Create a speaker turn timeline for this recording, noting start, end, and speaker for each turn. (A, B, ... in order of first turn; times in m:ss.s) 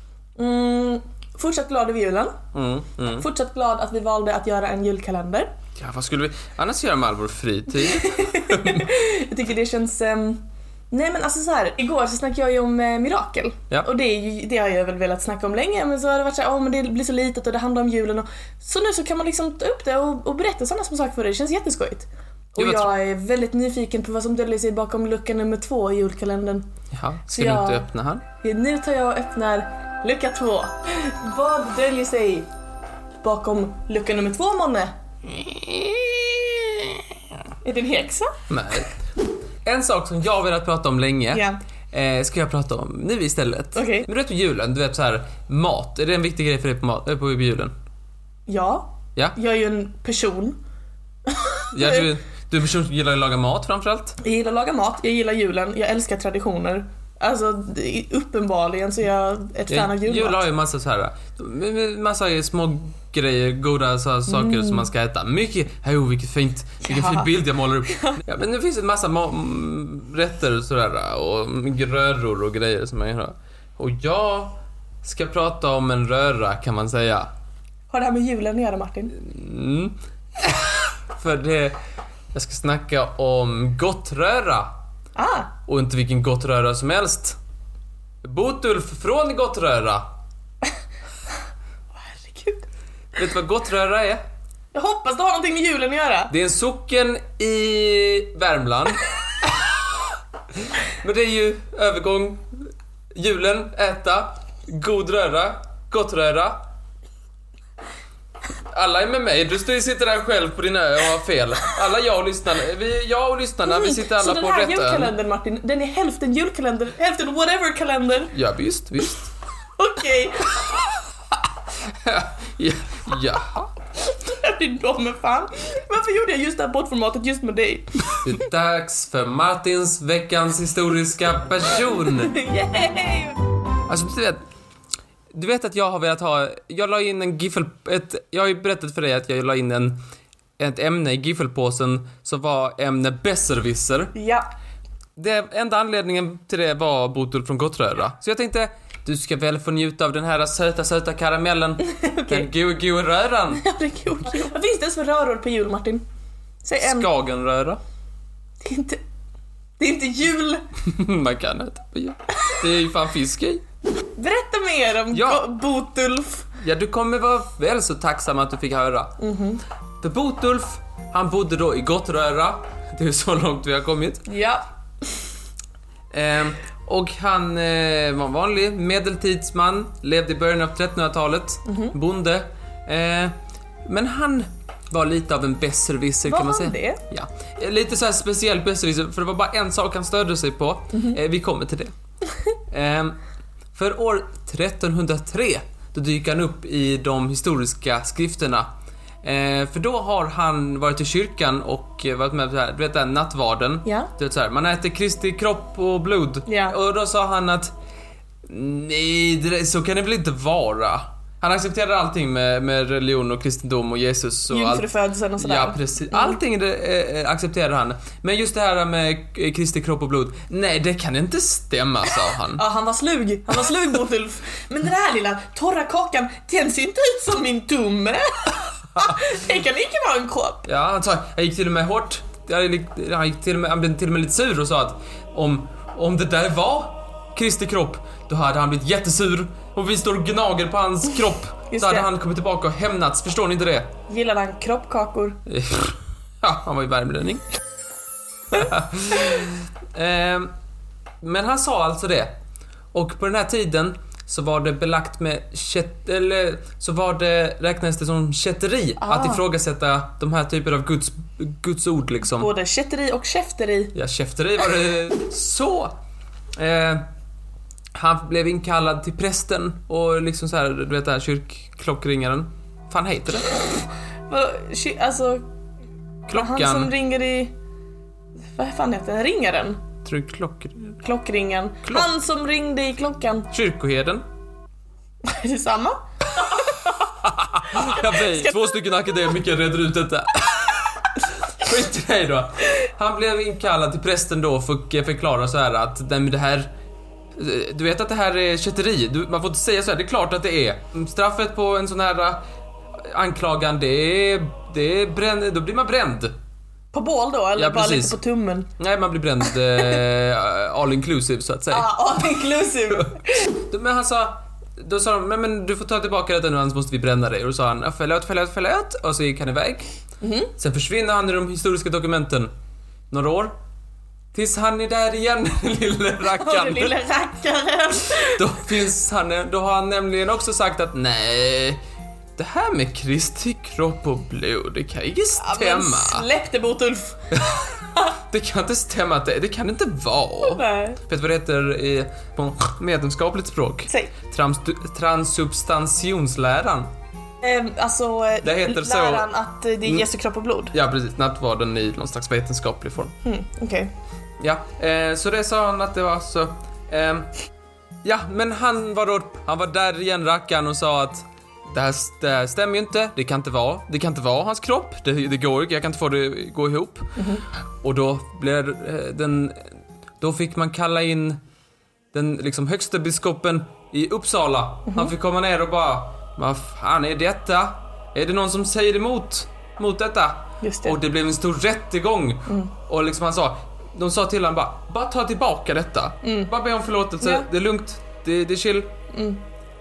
0:00.4-0:02.3 A
0:02.5-0:03.2 B
0:03.2-0:05.5 A
0:05.8-0:08.8 B
0:07.9-0:26.6 A
0:22.6-0:22.9 B
0:26.9-0:28.2 B
0:27.3-0:27.8 A
0:28.4-0:32.5 A
0:33.2-0:34.9 A
0:35.5-0:36.0 B
0:37.6-0:38.3 A
0:38.5-0:38.9 B
0:39.6-0:47.7 B
0:41.3-0:41.6 A
0:43.7-0:44.1 A
0:48.5-0:50.6 A
0:51.4-0:52.0 A
0:51.7-0:54.2 B
0:54.2-1:00.4 A
0:59.7-1:17.3 B
1:04.3-1:04.9 A
1:06.8-1:08.2 A
1:17.9-1:19.1 A
1:19.1-1:21.8 B
1:22.3-1:24.7 B
1:25.2-1:25.5 A
1:25.7-1:27.4 B
1:28.2-1:30.0 B
1:32.0-1:32.6 A
1:33.2-1:34.2 B
1:34.7-1:36.3 A
1:36.3-1:39.7 B
1:40.7-1:42.4 B
1:43.1-1:46.6 B
1:48.7-1:55.1 B
1:53.7-1:58.3 A
1:58.3-1:59.3 B
1:59.8-2:00.7 A
2:01.9-2:03.7 B
2:04.0-2:08.2 A
2:08.2-2:12.3 B
2:12.1-2:13.4 A
2:13.9-2:14.4 B
2:15.3-2:20.0 B
2:20.6-2:24.1 B
2:24.1-2:24.4 A
2:25.2-2:33.6 B
2:31.8-2:32.5 A
2:33.5-2:36.0 A
2:36.6-2:37.1 A
2:36.8-2:37.8 B
2:38.6-2:39.0 A
2:39.8-2:40.7 A
2:40.8-2:43.6 B
2:44.2-2:46.5 A
2:45.1-2:45.5 B
2:46.6-2:49.2 B
2:49.2-2:49.6 A
2:50.0-2:54.2 B
2:54.3-2:54.7 A
2:56.1-3:03.3 B
3:01.6-3:01.9 A
3:03.8-3:11.9 B
3:06.2-3:07.0 A
3:12.7-3:13.2 B
3:13.7-3:18.7 B
3:19.2-3:27.7 B
3:23.8-3:24.1 A
3:26.4-3:26.8 A
3:28.4-3:42.6 B
3:34.5-3:36.4 A
3:42.6-3:50.6 A
3:50.6-4:03.9 B
4:01.7-4:02.1 A
4:04.1-4:05.4 A
4:05.5-4:07.4 B
4:08.5-4:10.5 B
4:11.2-4:12.3 B
4:12.9-4:22.5 B
4:19.0-4:19.4 A
4:22.3-4:23.9 A
4:23.9-4:25.9 B
4:26.6-4:27.0 B
4:27.9-4:33.5 B
4:34.3-4:35.4 A
4:36.3-4:36.9 B
4:36.3-4:37.5 A
4:38.5-4:39.8 A
4:40.0-4:41.0 B
4:41.0-4:43.5 A
4:43.5-4:44.2 B
4:45.2-4:46.9 A
4:47.2-4:56.7 B
4:47.7-4:48.5 A
4:57.4-5:02.4 B
5:03.0-5:06.3 B
5:06.9-5:08.7 A
5:07.6-5:08.2 B
5:08.8-5:11.9 B
5:11.7-5:13.5 A
5:13.6-5:19.9 B
5:20.2-5:20.5 A
5:20.6-5:22.5 B
5:23.1-5:23.5 B
5:24.3-5:27.0 B
5:26.3-5:28.4 A
5:28.1-5:31.8 B
5:32.4-5:36.2 B
5:35.4-5:37.6 A
5:38.3-5:46.9 B
5:40.4-5:41.0 A
5:43.9-5:44.1 A
5:47.4-5:50.7 A
5:48.4-5:49.3 B
5:50.7-5:53.1 B
5:53.2-5:53.9 A
5:54.4-5:57.3 B
5:58.0-6:07.1 B
6:07.2-6:07.4 A
6:07.8-6:09.6 B
6:10.2-6:11.4 B
6:12.1-6:28.9 B
6:14.9-6:15.1 A
6:20.6-6:21.0 A
6:22.5-6:22.7 A
6:26.2-6:26.5 A
6:27.2-6:27.5 A
6:29.1-6:29.4 A